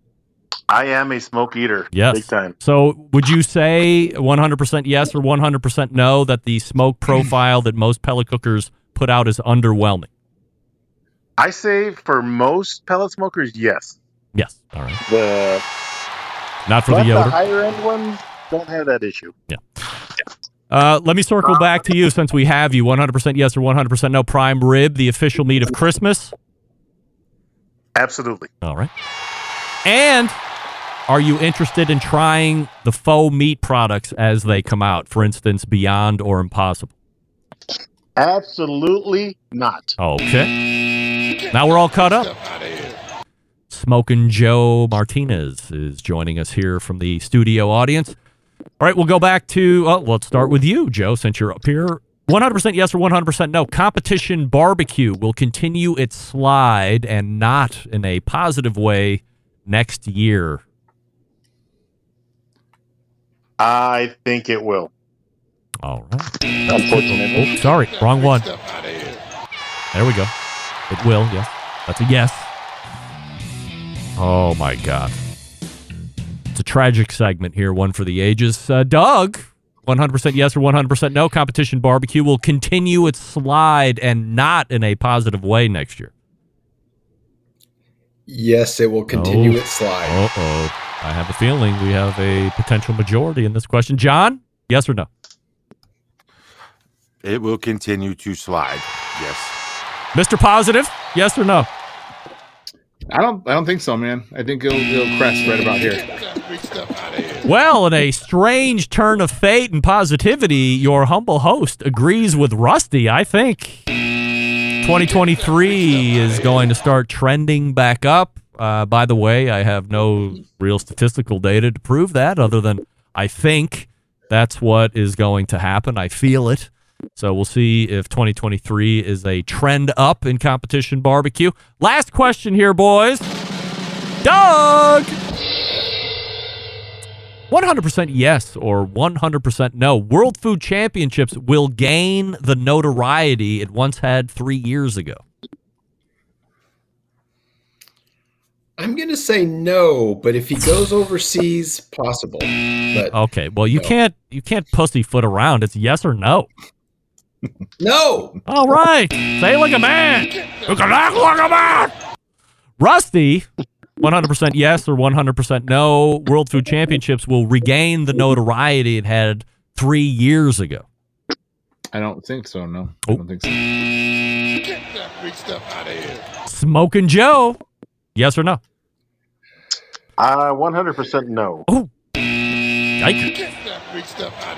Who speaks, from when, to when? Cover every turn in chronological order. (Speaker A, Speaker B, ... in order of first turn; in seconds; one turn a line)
Speaker A: 0.7-2.5
Speaker B: 1.9-10.1
Speaker A: 11.4-14.0
Speaker B: 14.3-15.0
Speaker A: 15.1-15.6
Speaker B: 16.7-17.4
Speaker A: 16.9-19.3
Speaker B: 20.7-26.3
Speaker A: 27.9-28.5
Speaker B: 28.6-28.9
Speaker B: 29.9-30.4
Speaker B: 31.1-36.9
Speaker A: 38.2-40.0
Speaker B: 40.0-40.5
Speaker B: 41.5-42.3
Speaker B: 43.7-48.2
Speaker B: 48.8-60.6
Speaker A: 63.6-64.9
Speaker B: 65.8-68.5
Speaker A: 66.7-67.5
Speaker B: 69.9-70.3
Speaker B: 70.9-72.5
Speaker B: 74.2-75.1
Speaker B: 76.5-86.1
Speaker C: 88.3-90.2
Speaker B: 89.1-95.1
Speaker D: 97.2-99.5
Speaker B: 100.2-101.7
Speaker E: 103.1-106.2
Speaker B: 107.4-113.8
Speaker B: 114.8-133.3
Speaker B: 134.2-135.2
Speaker B: 137.5-145.2
Speaker C: 148.8-153.2
Speaker B: 153.0-156.5
Speaker C: 157.8-158.4
Speaker B: 158.5-161.9
Speaker B: 162.8-163.5
Speaker B: 164.0-170.8
Speaker E: 171.9-173.6
Speaker B: 176.5-177.6
Speaker B: 178.2-178.6
Speaker A: 180.2-181.7
Speaker B: 183.0-183.3